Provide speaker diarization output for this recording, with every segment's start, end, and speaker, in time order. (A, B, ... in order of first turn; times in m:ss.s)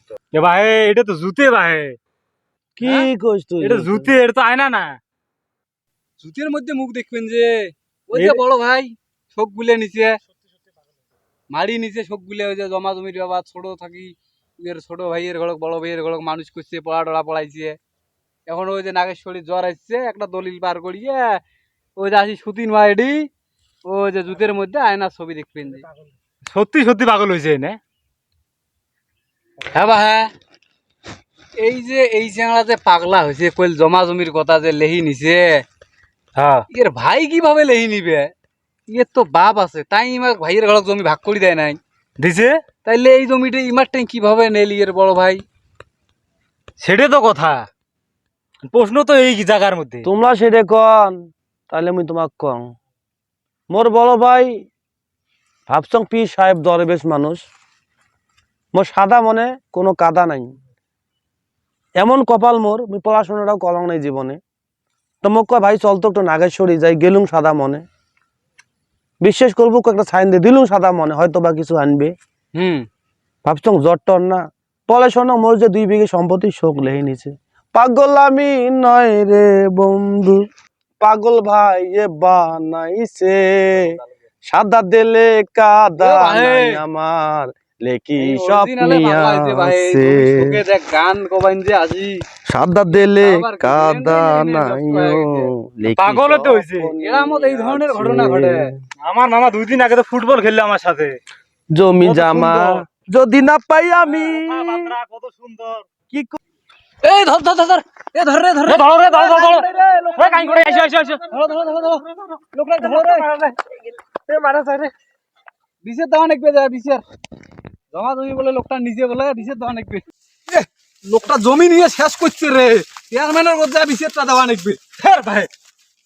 0:00.3-0:02.0 A
0:02.8-0:04.1 B
0:03.6-0:05.0 A
0:06.2-0:10.2 C
0:08.1-0:08.4 A
0:11.5-0:17.8 C
0:18.5-0:21.4 C
0:22.0-0:23.3 C
0:23.8-0:25.8 C
0:26.5-0:27.8 A
0:29.7-0:30.3 C
0:31.6-0:35.6 C
0:36.4-0:36.6 A
0:36.7-0:38.3 C
0:38.9-0:41.8 C
0:42.2-0:42.6 A
0:42.8-0:45.4 C
0:46.8-0:47.6 A
0:48.7-0:50.0 A
0:50.0-0:51.2 B
0:51.7-0:52.7 B
0:53.7-0:54.6 B
0:55.7-0:57.4 B
0:58.7-1:00.5 B
1:02.0-1:04.4 B
1:05.2-1:07.8 B
1:09.2-1:12.1 B
1:12.5-1:12.9 C
1:13.4-1:20.4 B
1:21.0-1:30.6 B
1:26.0-1:26.8 C
1:28.2-1:32.2 C
1:32.5-1:38.7 B
1:32.9-1:35.5 C
1:36.0-1:36.9 A
1:37.0-1:38.7 C
1:39.0-1:41.2 A
1:41.7-1:44.9 B
1:42.0-1:42.8 A
1:44.1-1:45.8 A
1:46.1-1:46.3 B
1:47.0-1:53.3 C
1:48.6-1:51.3 A
1:52.8-1:54.9 A
1:55.8-1:57.0 C
1:57.9-2:04.8 C
2:05.0-2:05.5 A